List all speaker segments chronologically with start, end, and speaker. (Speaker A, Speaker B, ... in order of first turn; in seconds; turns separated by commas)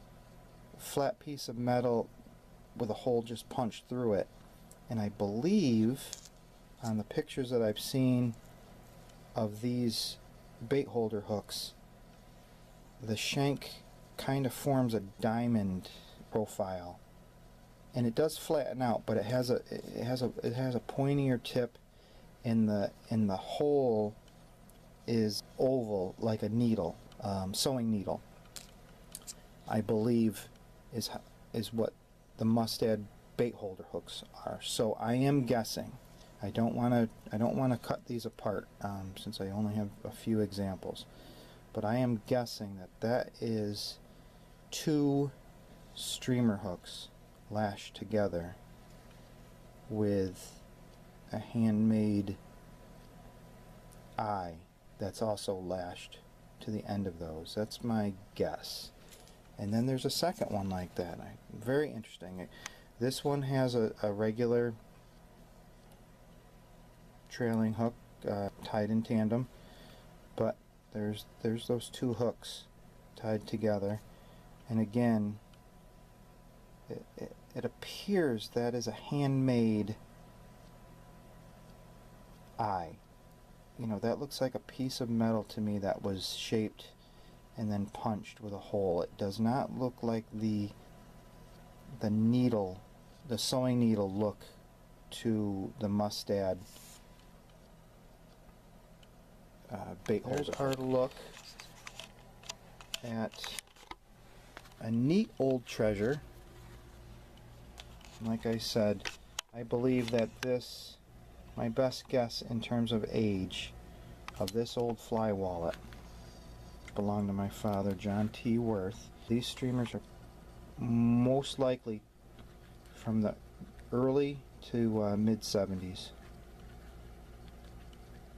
Speaker A: 0.7-2.1, Speaker A: 2.7-4.3, Speaker A: 4.9-6.2, Speaker A: 6.8-8.4, Speaker A: 9.3-11.8, Speaker A: 13.0-17.0, Speaker A: 17.9-21.8, Speaker A: 22.4-24.2, Speaker A: 25.1-28.2, Speaker A: 29.7-41.1, Speaker A: 41.7-44.0, Speaker A: 44.7-45.3, Speaker A: 45.9-48.6, Speaker A: 49.9-50.6, Speaker A: 51.3-52.4, Speaker A: 54.2-58.9, Speaker A: 59.6-64.8, Speaker A: 67.3-69.5, Speaker A: 70.3-74.0, Speaker A: 74.7-75.4, Speaker A: 76.9-80.0, Speaker A: 82.6-83.0, Speaker A: 83.8-87.0, Speaker A: 87.5-90.7, Speaker A: 92.0-94.5, Speaker A: 95.1-96.6, Speaker A: 99.7-101.3, Speaker A: 103.0-103.6, Speaker A: 104.8-106.2, Speaker A: 108.2-111.0, Speaker A: 111.5-113.8, Speaker A: 114.4-115.8, Speaker A: 116.9-120.0, Speaker A: 120.8-122.0, Speaker A: 122.9-123.4, Speaker A: 123.9-126.1